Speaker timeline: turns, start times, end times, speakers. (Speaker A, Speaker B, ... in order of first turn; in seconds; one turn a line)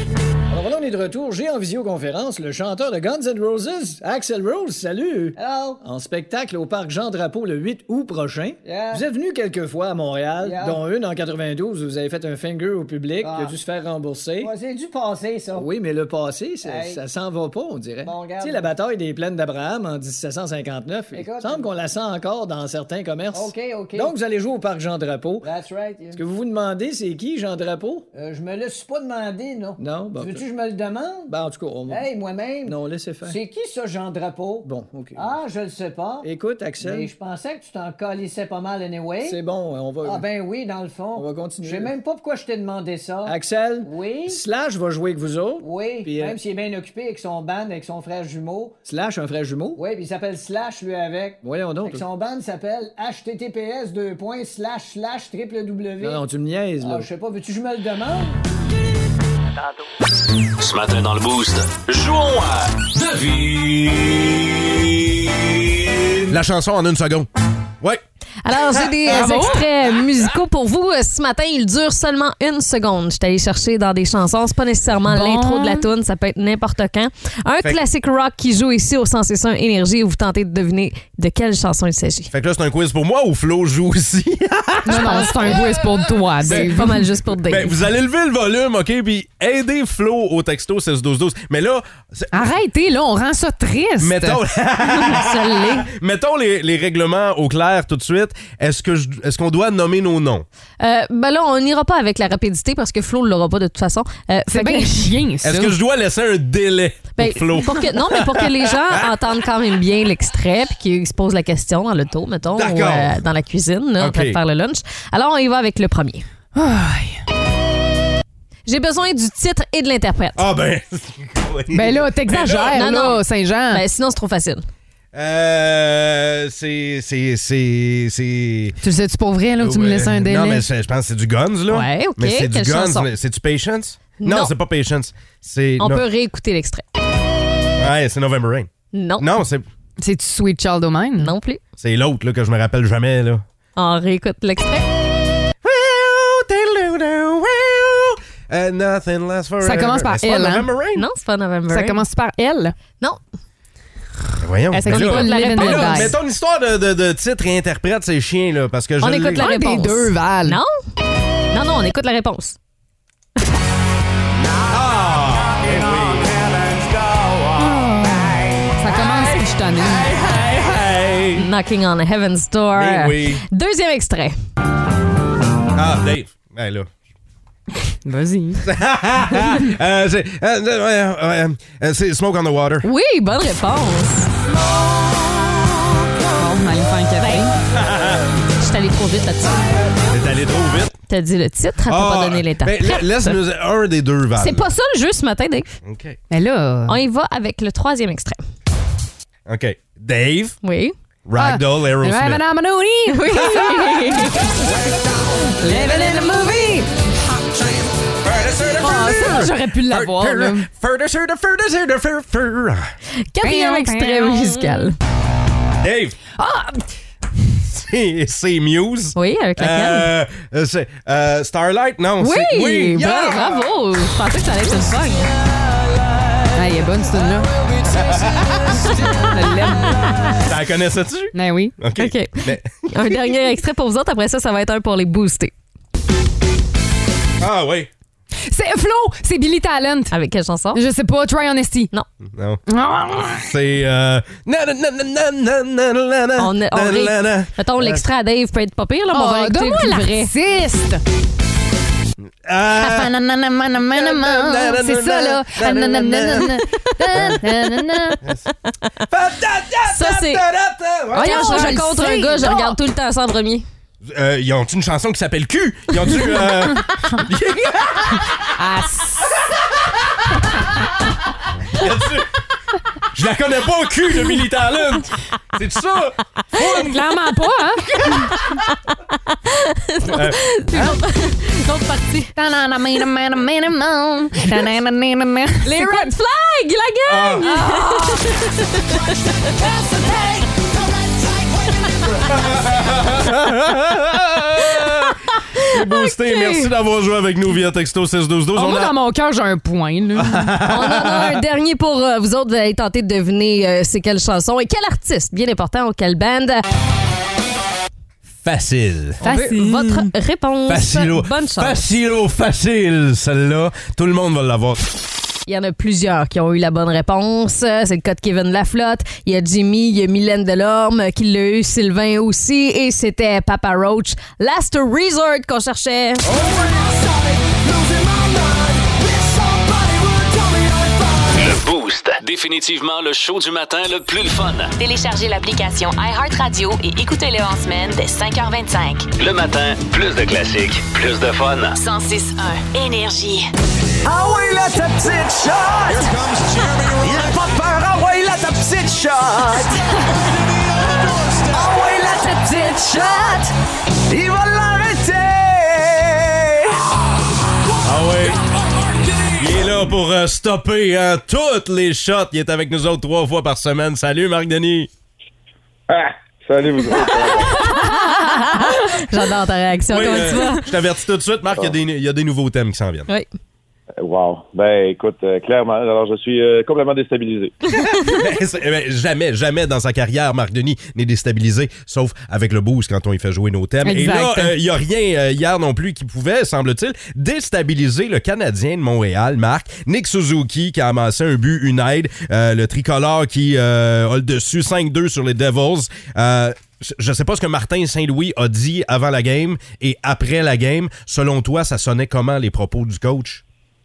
Speaker A: 0.5-1.4
Speaker B: 0.6-14.5
Speaker A: 5.3-5.8
Speaker A: 8.6-9.1
Speaker A: 10.4-10.8
Speaker A: 13.2-13.6
Speaker A: 14.4-15.7
Speaker B: 15.5-25.5
Speaker A: 16.6-17.0
Speaker A: 18.0-18.7
Speaker A: 21.1-21.7
Speaker A: 23.3-24.1
Speaker A: 25.4-26.2
Speaker B: 26.1-28.1
Speaker A: 28.1-31.3
Speaker B: 29.8-30.4
Speaker B: 31.3-32.1
Speaker A: 31.9-39.4
Speaker B: 32.6-33.4
Speaker B: 34.6-35.4
Speaker B: 36.2-37.1
Speaker B: 39.2-40.2
Speaker A: 40.0-44.4
Speaker B: 41.1-41.9
Speaker B: 43.2-46.4
Speaker A: 45.6-48.8
Speaker B: 48.8-49.8
Speaker A: 49.7-56.2
Speaker B: 51.4-52.0
Speaker B: 56.0-57.1
Speaker A: 56.8-58.4
Speaker C: 60.6-64.2
Speaker D: 66.3-67.3
Speaker D: 67.8-70.2
Speaker E: 68.4-82.3
Speaker F: 69.1-69.6
Speaker F: 75.1-75.9
Speaker D: 82.3-92.5
Speaker F: 84.8-87.0
Speaker E: 84.9-85.6
Speaker E: 86.4-87.8
Speaker F: 92.3-94.4
Speaker D: 94.0-100.5
Speaker E: 94.8-95.9
Speaker E: 100.8-105.2
Speaker F: 104.5-105.8
Speaker D: 105.4-109.4
Speaker E: 107.2-116.2
Speaker D: 112.5-113.2
Speaker D: 114.0-114.4
Speaker F: 116.5-117.2
Speaker E: 118.7-120.4
Speaker D: 120.3-122.8
Speaker F: 121.7-123.8
Speaker E: 122.7-124.7
Speaker D: 125.1-128.8
Speaker F: 128.8-130.7
Speaker D: 129.6-136.0
Speaker E: 131.7-133.1
Speaker E: 134.2-134.5
Speaker E: 135.8-136.8
Speaker D: 137.8-139.7
Speaker E: 138.9-139.3
Speaker F: 140.0-141.3
Speaker E: 141.2-141.6
Speaker D: 141.8-143.4
Speaker E: 143.8-144.9
Speaker D: 145.6-151.1
Speaker F: 149.6-150.7
Speaker E: 150.9-152.0
Speaker F: 151.7-152.7
Speaker D: 154.4-159.5
Speaker F: 154.7-156.1
Speaker E: 154.8-156.2
Speaker E: 159.0-160.7
Speaker F: 159.4-160.6
Speaker E: 161.5-162.6
Speaker D: 164.7-166.4
Speaker E: 167.6-168.3
Speaker F: 168.8-170.1
Speaker D: 169.8-171.5
Speaker E: 171.3-174.3
Speaker D: 172.7-173.4
Speaker D: 175.7-176.9
Speaker F: 178.0-178.6
Speaker D: 178.6-182.9
Speaker E: 182.8-184.3
Speaker F: 186.4-187.5
Speaker E: 187.2-187.5
Speaker D: 187.7-188.3
Speaker E: 188.6-189.8
Speaker D: 190.1-191.0
Speaker E: 191.1-193.4
Speaker D: 191.8-194.7
Speaker E: 194.3-195.7
Speaker D: 195.8-196.2
Speaker F: 196.3-197.0
Speaker E: 196.9-198.4
Speaker D: 199.4-200.6
Speaker E: 200.6-200.9
Speaker D: 201.2-202.4
Speaker F: 201.4-204.5
Speaker E: 203.1-204.5
Speaker E: 205.6-206.9
Speaker F: 205.7-206.4
Speaker D: 208.2-212.9
Speaker F: 208.8-210.7
Speaker E: 213.3-214.9
Speaker F: 213.4-214.9
Speaker D: 215.8-216.2
Speaker F: 216.4-216.8
Speaker D: 217.6-223.7
Speaker E: 219.1-220.1
Speaker E: 222.2-225.3
Speaker F: 226.5-227.5
Speaker D: 227.9-229.1
Speaker E: 228.8-230.3
Speaker F: 229.1-229.9
Speaker D: 230.4-233.4
Speaker F: 231.3-231.8
Speaker E: 231.9-235.5
Speaker D: 237.4-237.9
Speaker F: 238.5-240.1
Speaker E: 240.1-240.8
Speaker F: 240.7-241.9
Speaker D: 242.2-248.1
Speaker F: 242.7-243.5
Speaker E: 246.4-250.3
Speaker F: 249.1-251.0
Speaker D: 252.4-253.1
Speaker F: 252.8-258.2
Speaker D: 253.8-257.4
Speaker E: 257.1-257.4
Speaker D: 258.2-258.5
Speaker D: 259.1-261.9
Speaker E: 259.9-260.4
Speaker E: 261.1-263.6
Speaker F: 261.1-262.8
Speaker D: 264.0-268.5
Speaker E: 266.1-266.4
Speaker F: 268.6-269.3
Speaker D: 269.4-270.5
Speaker D: 271.7-272.4
Speaker D: 273.1-277.0
Speaker F: 276.6-278.3
Speaker D: 277.9-278.7
Speaker E: 278.3-282.3
Speaker D: 280.1-280.8
Speaker F: 282.4-286.1
Speaker E: 285.6-289.1
Speaker D: 287.1-287.6
Speaker F: 287.4-287.9
Speaker G: 289.6-292.4
Speaker D: 292.2-298.9
Speaker E: 294.8-296.7
Speaker F: 298.6-300.5
Speaker D: 300.1-301.4
Speaker E: 300.6-306.6
Speaker D: 308.4-309.2
Speaker F: 309.2-310.1
Speaker E: 309.2-311.8
Speaker D: 310.7-314.9
Speaker E: 315.4-326.2
Speaker G: 326.2-331.6
Speaker C: 331.3-334.7
Speaker H: 334.8-339.1
Speaker C: 339.2-341.8
Speaker H: 341.8-343.5
Speaker G: 345.8-347.7
Speaker G: 349.6-351.8
Speaker A: 351.5-353.4
Speaker D: 357.8-358.4
Speaker G: 357.9-359.8
Speaker D: 359.4-364.9
Speaker I: 365.9-367.7
Speaker E: 367.4-370.7
Speaker D: 369.9-373.1
Speaker I: 374.0-377.6
Speaker D: 377.7-403.4
Speaker E: 377.7-378.0
Speaker F: 383.8-384.5